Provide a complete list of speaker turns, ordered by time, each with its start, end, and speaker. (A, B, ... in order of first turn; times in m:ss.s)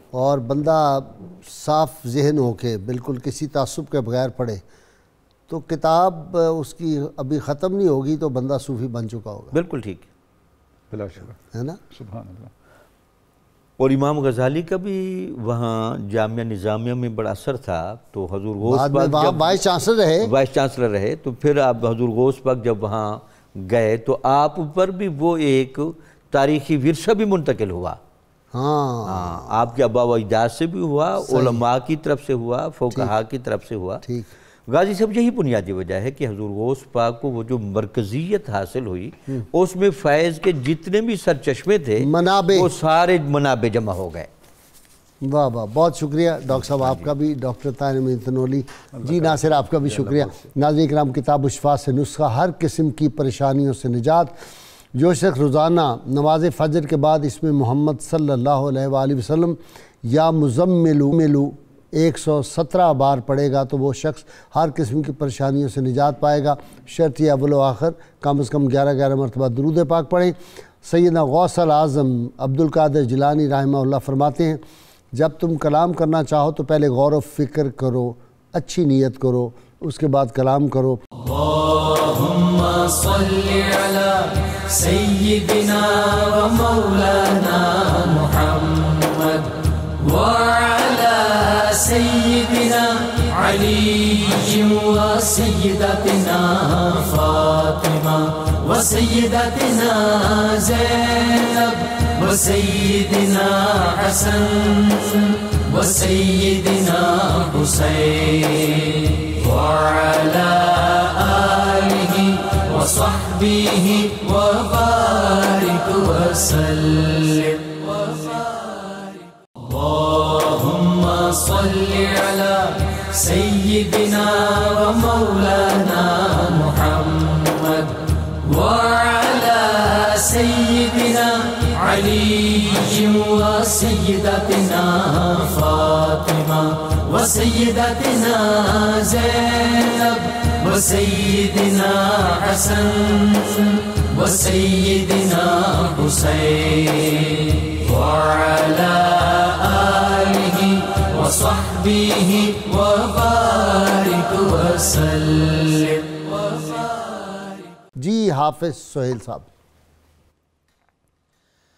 0:00.1-0:04.6 A
0:05.5-0:09.6 A
0:09.5-0:10.1 B
0:10.9-0:11.4 C
0:11.5-0:11.8 A
0:11.9-0:12.5 C
0:13.8-0:19.6 B
0:18.6-0:20.3 A
0:20.2-0:28.0 B
0:28.5-0:29.6 A
0:29.0-0:34.0 B
0:31.2-0:31.6 A
0:34.0-0:34.3 A
0:34.7-0:44.3 B
0:42.0-0:42.7 A
0:45.2-0:54.3 A
0:46.6-0:47.1 B
0:48.9-0:50.4 C
0:54.9-1:14.6 A
1:15.1-1:21.0 A
1:21.2-2:37.2 D
2:37.9-2:39.5 A